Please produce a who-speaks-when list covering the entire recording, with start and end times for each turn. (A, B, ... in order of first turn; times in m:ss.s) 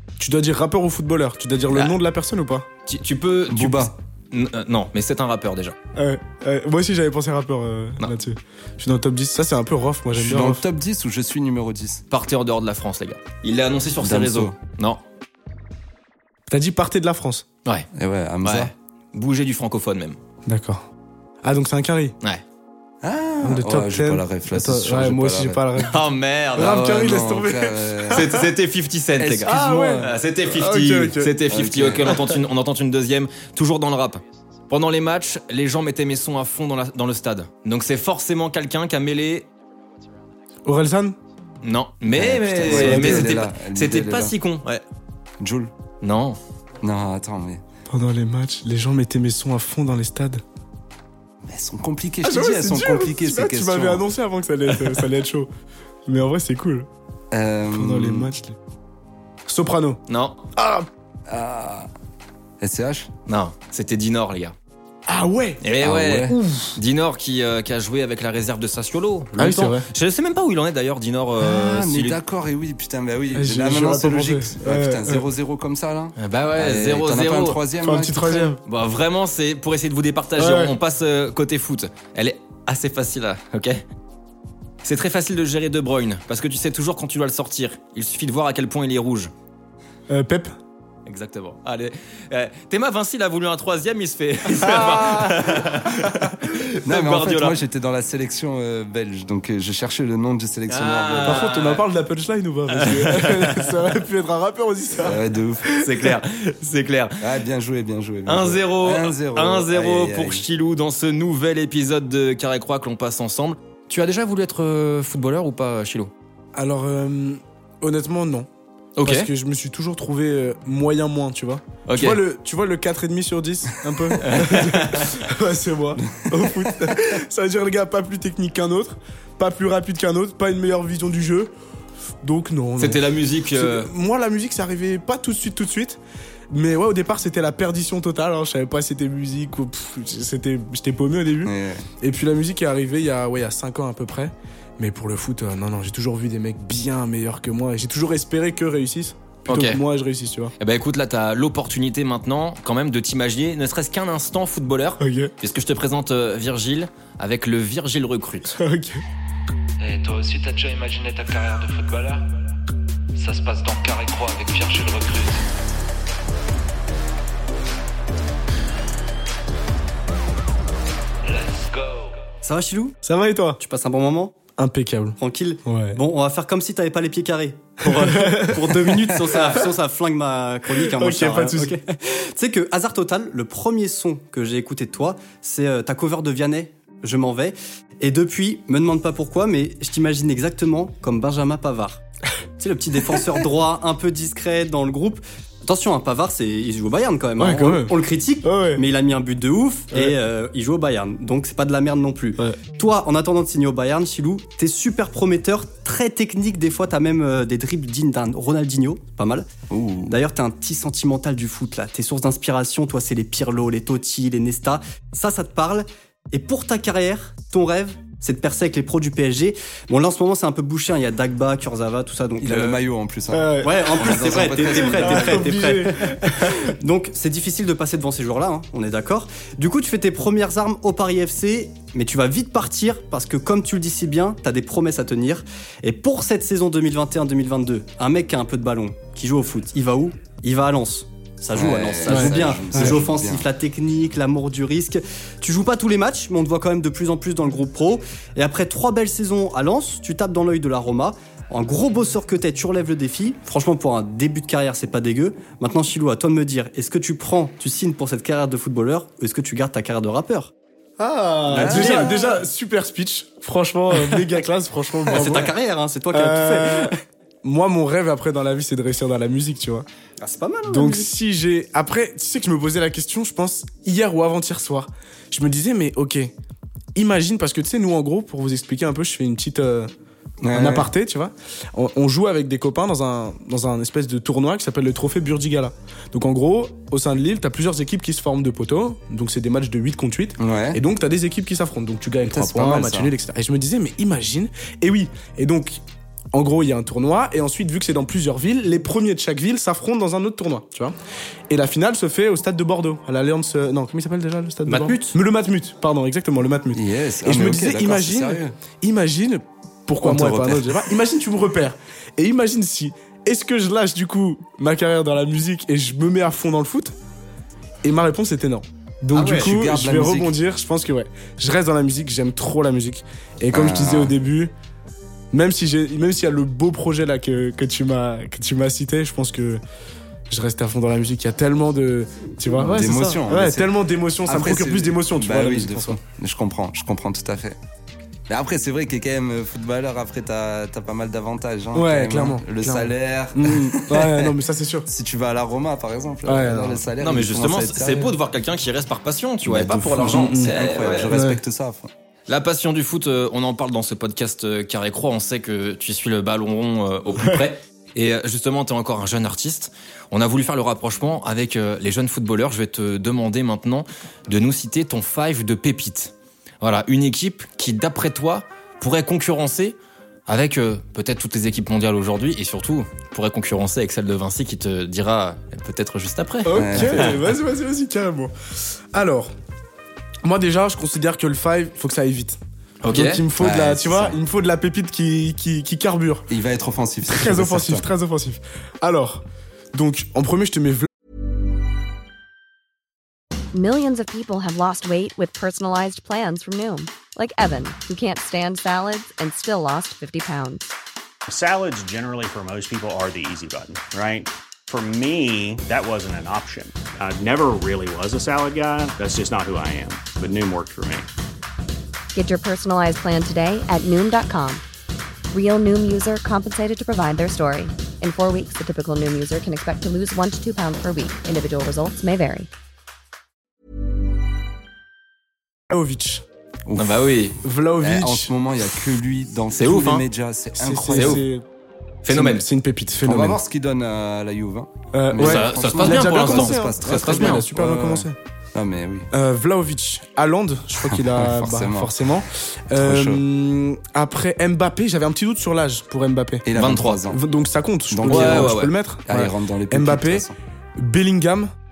0:00.2-0:02.7 A
0:02.9-0:05.8 B
0:03.5-0:03.9 C
0:06.0-0:10.6 A
0:10.1-0:12.0 C
0:12.1-0:15.0 B
0:14.0-0:14.5 C
0:16.5-0:17.4 A
0:17.9-0:18.7 C
0:18.4-0:20.2 B
0:20.5-0:20.9 A
0:21.4-0:22.1 A
0:23.0-0:25.6 C
0:23.4-0:26.0 A
0:25.8-0:27.2 B
0:26.6-0:28.4 A
0:26.6-0:28.4 C
0:28.1-0:39.5 B
0:29.2-0:30.1 C
0:29.4-0:31.3 A
0:31.5-0:32.3 C
0:40.6-0:41.2 A
0:41.6-0:44.8 B
0:42.1-0:44.3 C
0:42.7-0:43.2 A
0:45.4-0:45.7 C
0:46.0-0:46.4 B
0:46.8-0:47.6 C
0:47.9-0:50.4 A
0:51.4-0:54.0 C
0:52.2-0:55.5 A
0:56.1-0:56.9 A
0:57.3-0:58.3 C
0:57.7-0:58.5 A
0:59.5-1:00.0 A
1:00.1-1:00.4 B
1:00.6-1:00.9 A
1:01.3-1:01.9 C
1:02.6-1:03.1 C
1:03.3-1:04.5 B
1:05.1-1:05.6 A
1:05.6-1:12.2 B
1:05.8-1:06.4 C
1:06.3-1:06.8 A
1:09.4-1:09.8 A
1:11.4-1:18.6 C
1:13.3-1:15.2 A
1:16.2-1:17.6 B
1:17.8-1:18.6 A
1:18.6-1:23.8 B
1:20.4-1:20.7 A
1:24.8-1:29.3 B
1:30.1-1:30.6 A
1:31.0-1:37.6 B
1:34.6-1:35.5 A
1:36.8-1:41.5 C
1:40.7-1:41.8 B
1:41.2-1:45.9 A
1:42.7-1:43.8 B
1:45.0-1:45.7 C
1:45.8-1:47.2 B
1:47.2-1:50.4 C
1:48.2-1:56.1 B
1:56.5-1:58.5 A
1:59.0-1:59.3 B
1:59.0-2:11.5 A
2:01.9-2:02.2 B
2:04.2-2:05.1 B
2:06.0-2:06.9 C
2:12.2-2:13.0 A
2:12.8-2:13.9 B
2:13.5-2:16.0 A
2:16.5-2:30.5 A
2:21.4-2:21.8 C
2:29.5-2:29.8 B
2:30.6-2:38.6 B
2:35.0-2:35.3 A
2:38.6-2:39.0 A
2:39.8-2:42.2 D
2:43.2-2:45.4 D
2:51.2-2:52.2 D
2:52.4-2:53.0 E
2:53.0-2:53.6 A
2:53.6-2:54.4 E
2:54.6-2:56.0 A
2:55.2-3:12.0 E
2:57.9-2:59.6 A
3:00.9-3:01.7 A
3:12.6-3:29.4 E
3:17.4-3:18.8 A
3:29.7-3:30.2 C
3:30.1-3:42.8 E
3:42.4-3:45.5 C
3:43.3-3:46.7 A
3:43.6-4:20.5 E
4:01.5-4:03.5 C
4:02.1-4:03.0 A
4:21.0-4:25.5 A
4:21.5-4:22.4 E
4:21.6-4:22.1 C
4:25.0-4:26.9 E
4:26.1-4:29.8 A
4:30.2-4:31.1 E
4:30.7-4:36.3 A
4:37.0-4:39.9 A
4:40.4-4:40.9 C
4:40.5-4:55.8 A
4:50.4-4:50.8 C
4:52.3-4:53.1 C
4:56.3-5:00.9 A
5:01.5-5:16.9 A
5:04.7-5:05.1 E
5:06.7-5:08.6 C
5:10.0-5:10.8 C
5:17.8-5:24.5 A
5:19.1-5:20.3 C
5:23.5-5:24.1 C
5:25.3-5:29.6 A
5:30.3-5:36.0 A
5:32.5-5:37.6 C
5:38.3-5:48.2 C
5:41.7-5:44.9 A
5:46.2-5:46.8 A
5:47.0-5:51.1 B
5:49.4-5:51.9 C
5:50.0-5:50.6 A
5:51.1-5:51.4 A
5:52.3-6:09.8 B
6:10.3-6:17.2 B
6:16.4-6:18.3 A
6:16.5-6:17.2 C
6:18.9-6:19.3 A
6:20.2-6:26.3 A
6:22.8-6:23.2 B
6:23.4-6:24.2 C
6:26.3-6:27.9 C
6:27.1-6:29.2 A
6:29.7-6:30.9 A
6:33.5-6:40.7 F
6:41.3-6:51.1 G
6:52.1-6:54.6 F
6:55.3-7:02.5 F
7:05.7-7:06.2 A
7:06.7-7:07.2 C
7:06.8-7:07.4 B
7:07.4-7:08.3 A
7:07.8-7:11.2 C
7:09.5-7:10.1 B
7:10.6-7:11.4 A
7:10.9-7:11.2 B
7:12.0-7:12.4 B
7:12.1-7:13.4 A
7:13.0-7:19.1 C
7:14.9-7:18.2 A
7:15.2-7:17.5 B
7:19.1-7:26.4 A
7:20.9-7:22.0 C
7:22.7-7:23.2 C
7:26.4-7:27.2 C
7:26.6-7:27.0 B
7:27.1-7:31.5 A
7:27.9-7:30.3 C
7:28.1-7:28.7 B